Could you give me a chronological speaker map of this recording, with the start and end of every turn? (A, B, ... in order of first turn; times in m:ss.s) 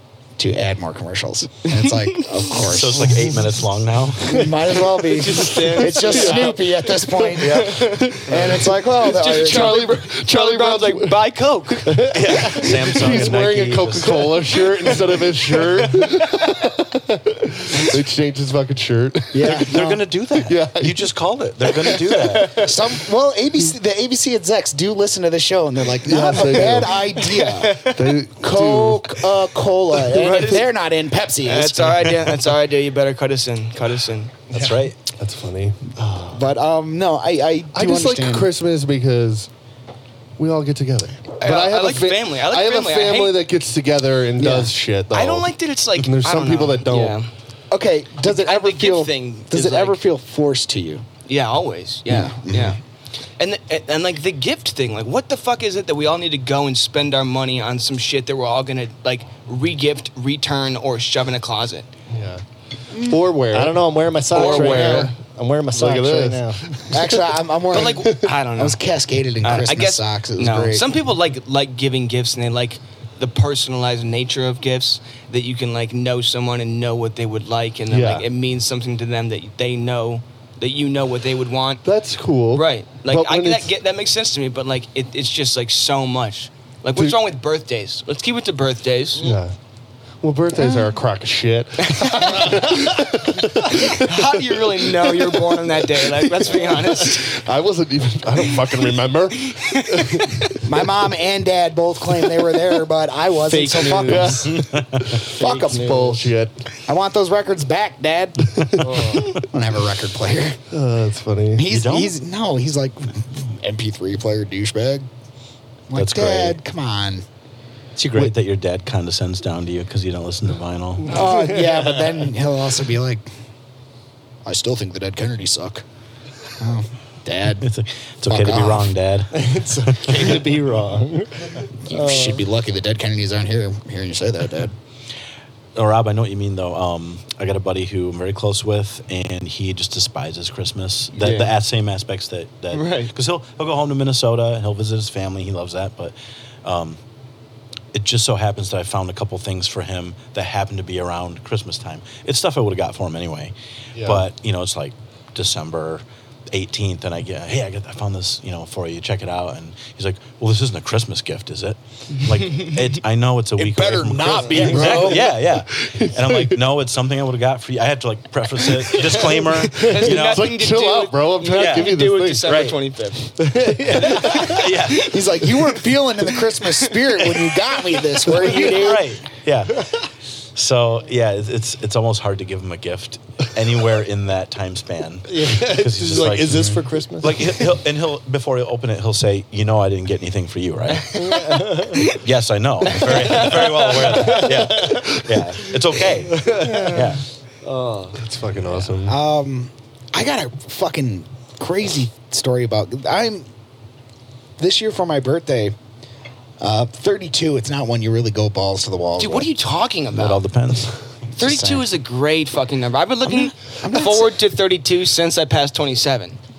0:00.4-0:03.4 A
0:01.7-0:02.4 B
0:02.6-0:04.6 C
0:04.3-0:07.7 A
0:05.1-0:06.6 B
0:05.6-0:06.6 D
0:07.4-0:07.8 C
0:07.4-0:08.2 B
0:08.0-0:19.8 D
0:08.3-0:09.8 A
0:09.0-0:12.1 B
0:12.1-0:14.4 C
0:14.5-0:15.8 B
0:19.3-0:20.0 A
0:19.4-0:22.6 C
0:20.3-0:21.1 D
0:22.3-0:22.7 B
0:22.6-0:27.9 A
0:26.0-0:27.1 D
0:27.3-0:28.2 B
0:27.9-0:29.2 D
0:28.4-0:32.2 A
0:30.1-0:30.7 B
0:31.4-0:34.5 B
0:34.5-0:35.0 C
0:35.1-0:36.4 D
0:36.3-0:38.5 A
0:37.7-0:39.5 D
0:40.4-0:47.2 D
0:41.4-0:43.4 B
0:44.4-0:44.7 A
0:45.1-0:47.3 B
0:47.7-0:51.0 A
0:48.2-0:50.0 B
0:51.3-0:52.8 B
0:52.1-0:52.8 A
0:53.4-1:01.9 B
1:02.1-1:02.4 D
1:02.9-1:03.3 A
1:03.0-1:05.2 D
1:03.5-1:06.6 E
1:04.3-1:05.1 B
1:05.7-1:07.3 D
1:06.9-1:11.0 A
1:07.7-1:08.8 B
1:07.9-1:08.3 D
1:09.4-1:21.8 B
1:17.9-1:18.3 D
1:21.8-1:23.7 D
1:22.5-1:29.4 B
1:29.2-1:29.5 D
1:30.2-1:40.7 D
1:31.8-1:32.9 B
1:33.6-1:37.4 B
1:39.4-1:40.3 B
1:40.6-1:44.5 A
1:43.5-1:44.5 E
1:44.0-1:46.6 D
1:44.5-1:45.2 C
1:45.4-1:46.0 A
1:45.4-1:46.3 E
1:46.9-1:50.6 A
1:48.7-1:49.0 D
1:48.8-1:49.3 E
1:50.7-1:51.6 D
1:51.5-1:55.1 A
1:51.7-1:52.2 C
1:55.9-1:57.2 A
1:56.0-1:56.6 C
1:58.0-2:01.1 C
2:01.1-2:03.3 A
2:01.1-2:02.2 E
2:04.4-2:05.8 A
2:06.6-2:07.7 A
2:07.6-2:10.4 C
2:08.3-2:09.0 A
2:09.3-2:12.5 E
2:11.8-2:14.7 A
2:15.8-2:27.0 C
2:21.2-2:21.5 B
2:22.7-2:23.1 B
2:27.9-2:50.5 C
2:43.6-2:45.3 A
2:44.7-2:46.6 D
2:48.7-2:52.5 D
2:49.7-2:53.4 B
2:51.5-2:52.8 C
2:53.9-2:55.2 C
2:54.9-2:59.1 A
2:58.4-3:00.0 C
3:00.6-3:11.4 C
3:05.3-3:07.4 E
3:11.2-3:12.0 E
3:12.1-3:17.2 C
3:13.1-3:14.4 B
3:16.5-3:17.0 E
3:17.6-3:18.2 E
3:18.2-3:19.2 D
3:19.0-3:23.5 A
3:24.6-3:25.8 A
3:26.6-3:29.5 A
3:29.2-3:30.5 B
3:30.1-3:31.0 C
3:31.4-3:31.9 A
3:31.4-3:36.4 B
3:33.2-3:34.4 A